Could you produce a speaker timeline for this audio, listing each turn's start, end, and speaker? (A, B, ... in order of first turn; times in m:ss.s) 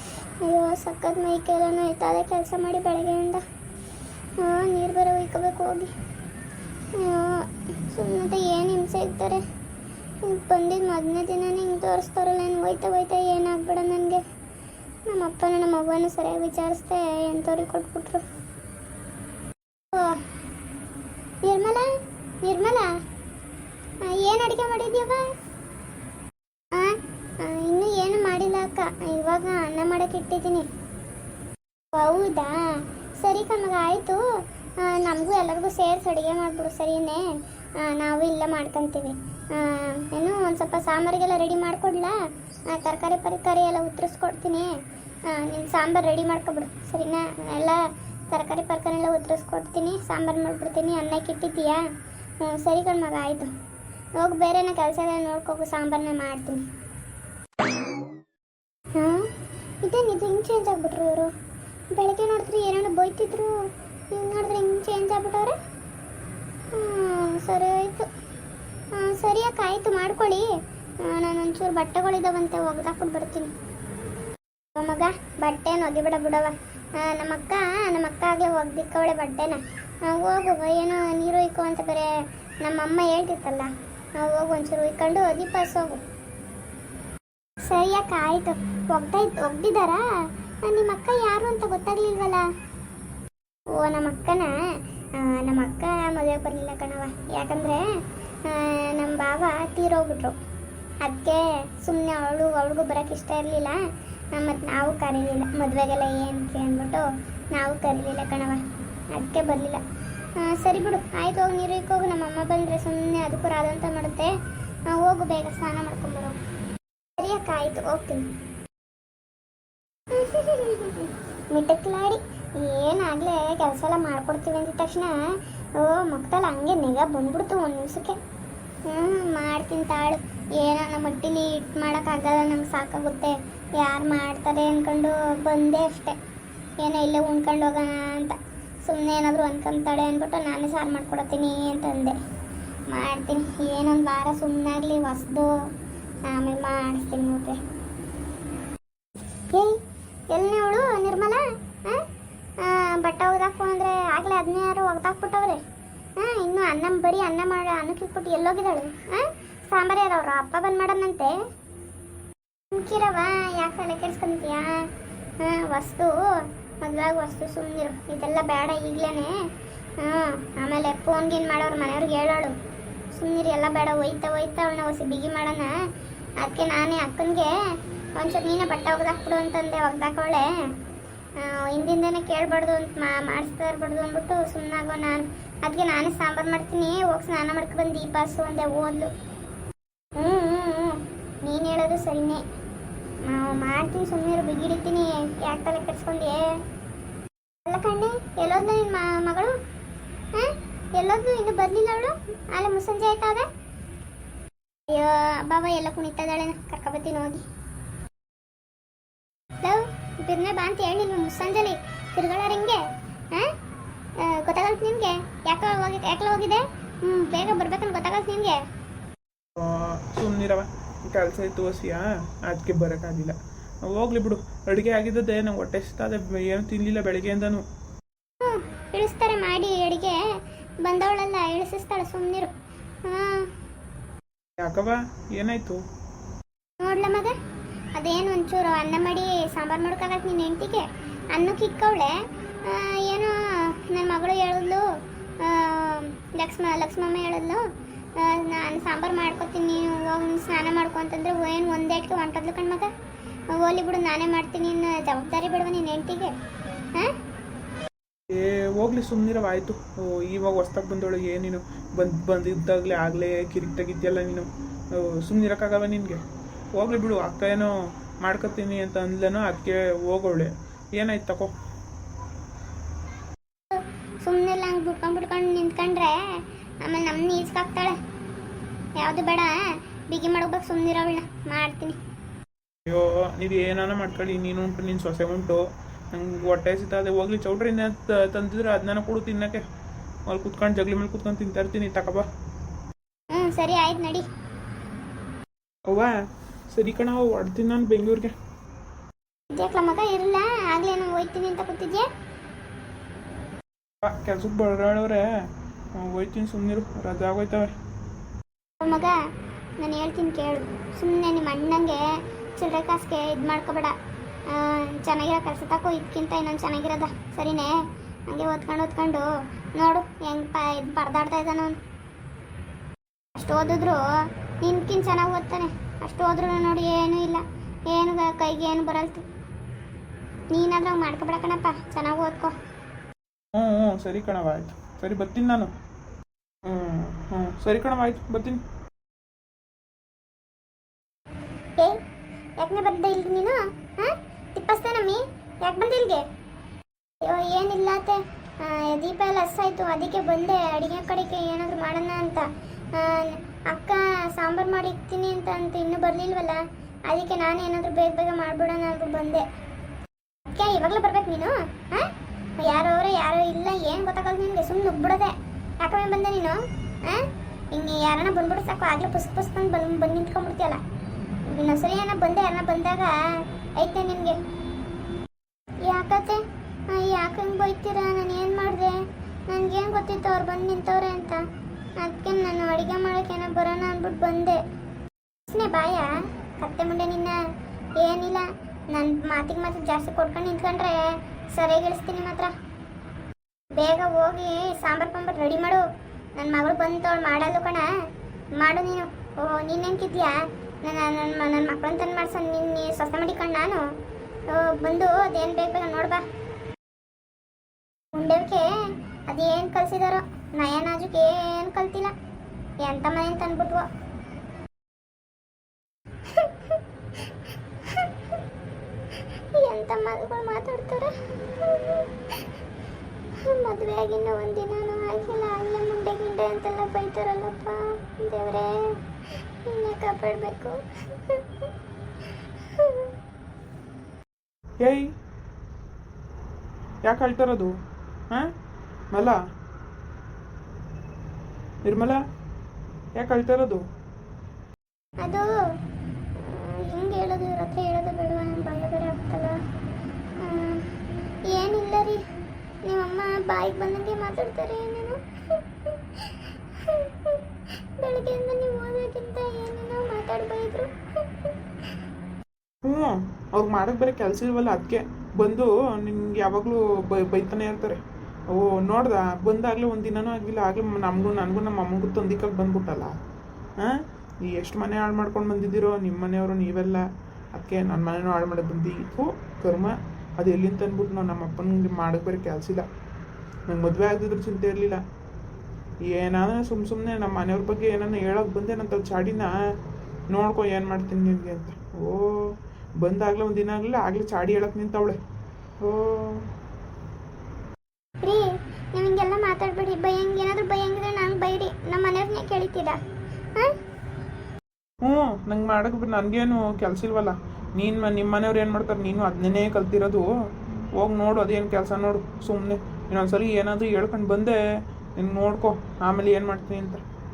0:00.4-0:03.4 A
0:04.4-0:05.9 A
0:06.9-0:09.4 A
0:10.2-0:14.2 A
0:15.1-0:18.2 A
0:19.9-0:20.2 A
0:21.4-0:21.9 A
0:22.4-0:22.9 A
0:24.0-0:25.2 A
0:26.7-0:30.7 A
0:31.9-0:32.6 A
0:33.2-0:34.2 A
0:34.8-0:37.2 A
0:37.8-0:42.1 A
0:42.7-0:44.7 A
0:45.3-0:51.8 A
0:52.4-0:53.5 A
0:54.2-0:56.6 A
0:59.0-0:59.3 A
0:59.8-1:01.3 A
1:01.9-1:05.6 A
1:06.7-1:08.1 A
1:08.9-1:10.5 A
1:11.0-1:13.5 A
1:14.7-1:22.1 A
1:22.6-1:26.0 A
1:27.6-1:30.0 A
1:30.6-1:32.4 A
1:33.7-1:34.5 A
1:35.2-1:37.8 A
1:38.4-1:40.4 A
1:41.0-1:43.8 A
1:44.3-1:48.6 A
1:49.1-1:49.8 A
1:50.4-1:54.3 A
1:54.9-1:56.4 A
1:57.2-1:58.3 A
2:00.1-2:05.2 A
2:05.8-2:08.2 A
2:08.9-2:16.2 A
2:16.8-2:22.2 A
2:22.9-2:25.5 A
2:26.3-2:27.6 A
2:29.5-2:29.8 A
2:30.3-2:32.0 A
2:32.6-2:35.6 A
2:36.2-2:41.4 A
2:42.7-2:44.8 A
2:45.4-2:46.2 A
2:46.8-2:49.4 A
2:50.0-2:52.5 A
2:53.1-2:55.7 A
2:56.4-2:57.5 A
2:58.2-3:00.5 A
3:01.4-3:09.1 A
3:10.2-3:12.4 A
3:13.2-3:16.5 A
3:17.6-3:19.6 A
3:20.3-3:23.5 A
3:24.9-3:27.4 A
3:29.6-3:33.5 A
3:34.2-3:38.6 A
3:39.6-3:47.6 B
3:48.4-3:50.2 A
3:50.8-3:53.5 A
3:54.6-3:55.8 B
3:56.8-3:57.4 A
3:58.0-4:02.1 A
4:02.6-4:04.8 A
4:05.4-4:07.6 A
4:08.2-4:12.9 A
4:13.5-4:16.3 A
4:18.3-4:26.2 B
4:26.7-4:31.5 B
4:33.7-4:38.0 A
4:39.0-4:42.0 A
4:42.9-4:49.6 B
4:50.3-4:52.3 B
4:53.3-4:54.3 A
4:55.9-4:56.2 B
4:56.7-4:58.3 B
4:59.5-5:02.1 A
5:04.0-5:05.2 B
5:05.9-5:07.7 B
5:08.8-5:09.2 A
5:09.8-5:14.0 A
5:14.5-5:17.8 A
5:18.3-5:21.8 A
5:23.3-5:24.0 A
5:24.6-5:29.2 A
5:30.5-5:32.5 A
5:33.5-5:35.7 B
5:36.6-5:38.6 B
5:42.6-5:46.2 A
5:47.2-5:59.4 A
6:00.4-6:10.8 A
6:11.5-6:13.1 A
6:13.8-6:14.4 A
6:15.8-6:21.4 A
6:22.0-6:24.6 A
6:25.5-6:27.4 A
6:28.0-6:32.5 A
6:33.7-6:35.8 A
6:36.4-6:37.9 A
6:38.6-6:43.8 A
6:44.5-6:46.2 A
6:48.1-6:48.7 A
6:49.3-6:52.1 A
6:52.8-6:53.9 A
6:56.3-6:56.8 A
6:57.9-6:58.1 A
6:59.4-7:02.5 A
7:03.4-7:09.0 A
7:09.6-7:11.7 A
7:12.6-7:13.1 A
7:14.8-7:15.1 B
7:17.0-7:17.7 B
7:19.1-7:19.4 B
7:21.8-7:22.2 B
7:23.2-7:23.8 B
7:25.2-7:25.5 A
7:26.4-7:29.6 A
7:30.4-7:30.9 A
7:31.5-7:32.2 A
7:32.8-7:37.4 A
7:38.0-7:40.9 A
7:42.8-7:53.2 B
7:53.8-8:02.8 B
8:03.7-8:05.0 B
8:06.1-8:09.6 B
8:10.3-8:15.2 B
8:15.8-8:16.5 B
8:18.2-8:23.0 A
8:25.0-8:30.3 B
8:31.0-8:34.6 B
8:35.2-8:37.0 B